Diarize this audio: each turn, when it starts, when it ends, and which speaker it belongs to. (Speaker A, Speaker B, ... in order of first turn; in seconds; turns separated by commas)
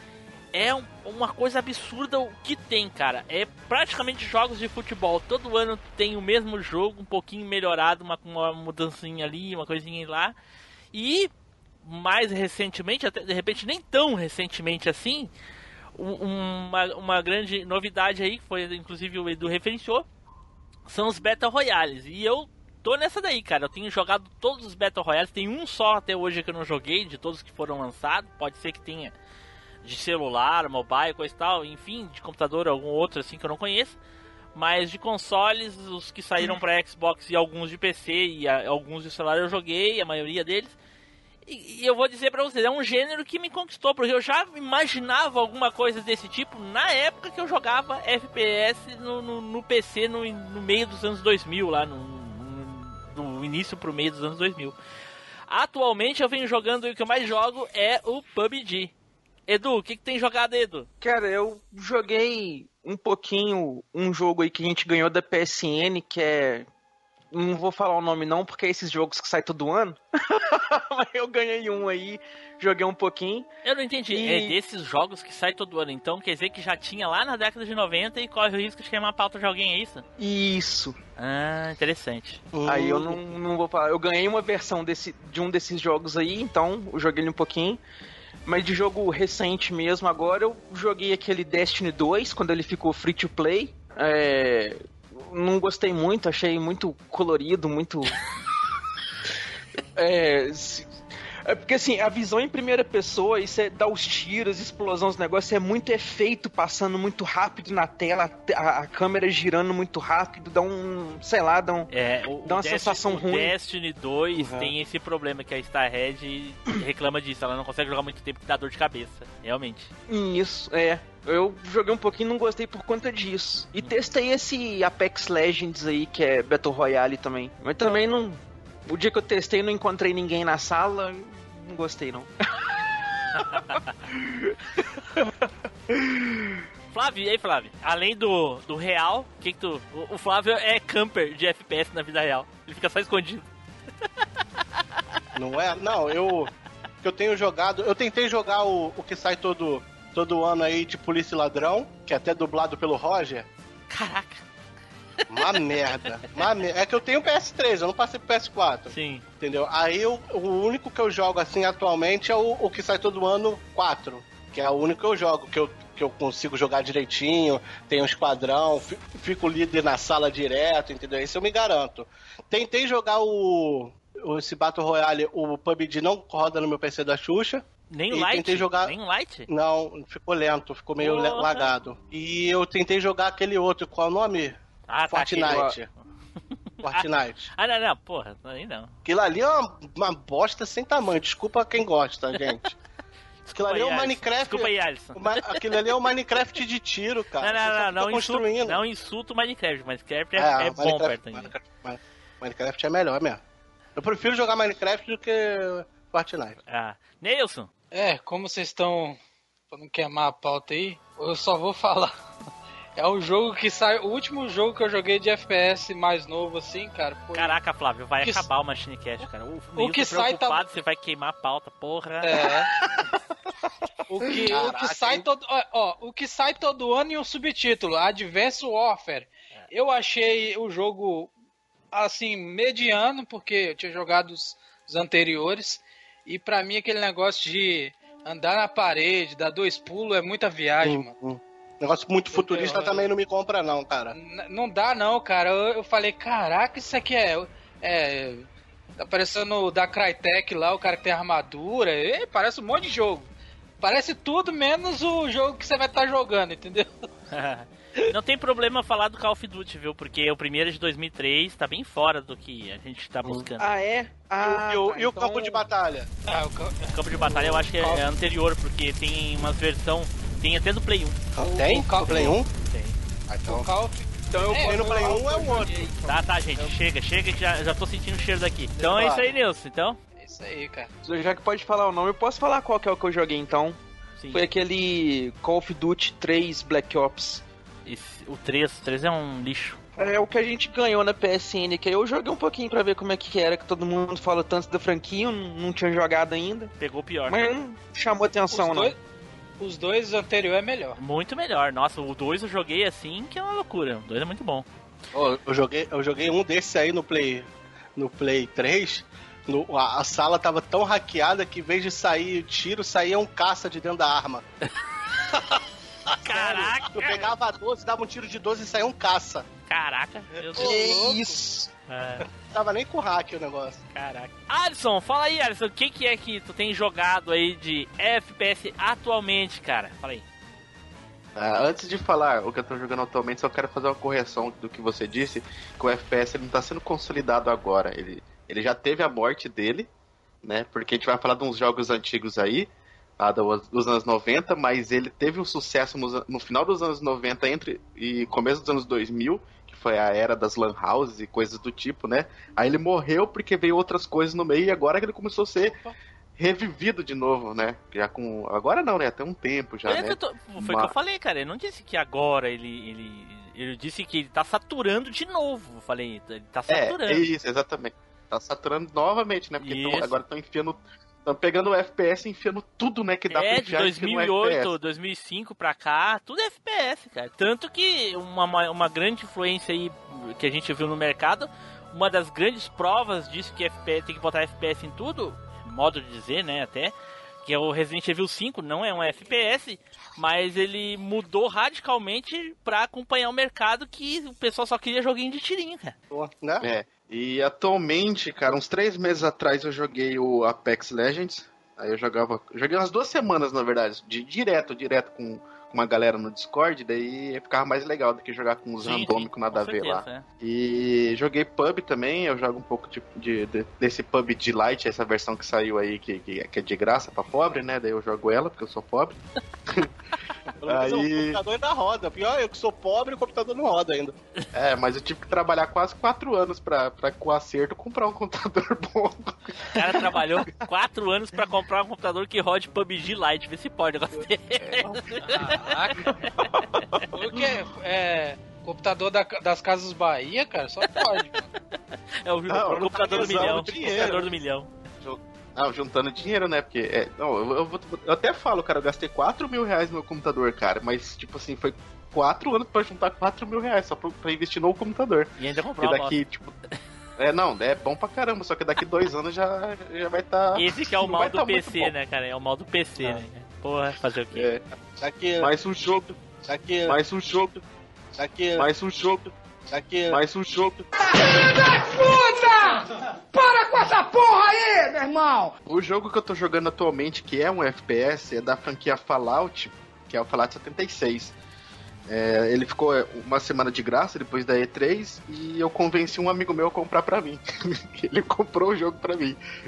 Speaker A: 0.5-10.3, Speaker A: 10.9-11.3, Speaker A: 11.8-15.3, Speaker A: 15.9-20.1, Speaker A: 20.9-29.1, Speaker A: 29.8-34.0, Speaker A: 34.5-40.8, Speaker A: 41.5-54.8, Speaker A: 55.5-58.9, Speaker A: 59.5-60.9, Speaker B: 61.0-66.7, Speaker B: 67.3-73.5, Speaker A: 73.6-80.0, Speaker B: 74.1-74.5, Speaker B: 80.2-81.0, Speaker A: 81.2-82.4, Speaker C: 82.5-83.2, Speaker B: 82.6-87.8, Speaker B: 88.4-98.2, Speaker B: 99.9-100.9, Speaker B: 101.4-111.9, Speaker A: 111.9-119.9, Speaker B: 112.4-113.5, Speaker C: 114.4-114.7, Speaker B: 120.1-132.3, Speaker A: 133.3-133.9, Speaker B: 134.2-135.0, Speaker A: 136.9-143.5, Speaker C: 145.3-146.5, Speaker C: 147.0-153.5, Speaker A: 153.9-154.4, Speaker A: 155.2-155.6, Speaker C: 155.3-178.9, Speaker A: 158.9-159.2, Speaker A: 177.9-179.5, Speaker C: 179.5-184.6, Speaker A: 181.0-181.7, Speaker A: 184.9-185.8, Speaker C: 185.1-185.9, Speaker B: 185.4-185.7, Speaker C: 186.8-187.5, Speaker A: 186.8-188.9, Speaker C: 189.0-192.8, Speaker A: 193.4-195.6, Speaker C: 193.6-198.8, Speaker A: 197.4-201.5, Speaker C: 200.4-203.4, Speaker C: 204.0-206.6, Speaker A: 206.7-207.7, Speaker D: 207.9-209.2, Speaker D: 209.7-212.2, Speaker D: 213.0-217.5, Speaker A: 217.3-222.4, Speaker D: 219.8-220.6, Speaker D: 222.2-222.7, Speaker D: 224.1-231.3, Speaker C: 224.5-225.3, Speaker D: 231.9-241.1, Speaker C: 240.8-244.1, Speaker D: 242.3-243.1, Speaker D: 244.1-253.3, Speaker D: 253.8-257.1, Speaker A: 257.3-263.7, Speaker B: 263.6-265.2, Speaker C: 264.4-266.1, Speaker D: 265.2-265.6, Speaker D: 266.2-267.0, Speaker A: 266.9-271.2, Speaker C: 267.2-268.0, Speaker C: 271.4-272.5, Speaker D: 271.4-272.4, Speaker A: 272.3-273.0, Speaker C: 273.3-273.7, Speaker D: 273.5-275.9, Speaker B: 274.3-276.6, Speaker C: 274.6-275.7, Speaker A: 276.1-280.0, Speaker C: 278.8-279.3, Speaker D: 280.2-280.9, Speaker B: 281.0-283.8, Speaker A: 284.2-284.5, Speaker B: 284.3-287.4, Speaker A: 287.9-289.8, Speaker B: 290.0-296.7, Speaker A: 296.8-297.6, Speaker B: 297.3-298.9, Speaker D: 298.5-299.0, Speaker D: 299.6-301.0, Speaker A: 301.0-304.6, Speaker C: 305.1-314.4, Speaker A: 316.2-317.3, Speaker C: 316.3-319.5, Speaker A: 319.7-320.7, Speaker C: 320.5-321.4, Speaker B: 320.6-321.7, Speaker A: 321.9-322.2, Speaker C: 322.5-323.8, Speaker A: 323.9-330.2, Speaker E: 331.4-339.9, Speaker E: 340.4-355.8, Speaker E: 356.4-360.9, Speaker A: 359.9-367.2, Speaker E: 366.7-374.8, Speaker A: 369.6-370.2, Speaker A: 373.3-386.9, Speaker A: 387.4-395.9, Speaker C: 396.1-396.6, Speaker E: 396.6-419.9, Speaker A: 408.8-410.2, Speaker C: 420.6-424.1, Speaker E: 420.7-421.4, Speaker E: 424.5-430.0, Speaker A: 429.7-436.5, Speaker E: 434.7-435.3, Speaker D: 435.3-436.1, Speaker B: 436.5-437.0, Speaker D: 437.1-441.5, Speaker A: 442.2-444.7, Speaker E: 442.5-444.2, Speaker C: 442.6-444.2, Speaker E: 445.0-456.5, Speaker A: 455.4-456.2, Speaker E: 457.2-461.9, Speaker A: 460.6-464.5, Speaker E: 464.3-464.6, Speaker C: 465.0-467.6, Speaker E: 465.4-466.0, Speaker E: 466.9-467.6, Speaker C: 468.2-470.8, Speaker E: 468.6-469.2, Speaker E: 470.1-470.8, Speaker F: 470.9-475.5, Speaker E: 475.6-481.3, Speaker E: 482.1-489.4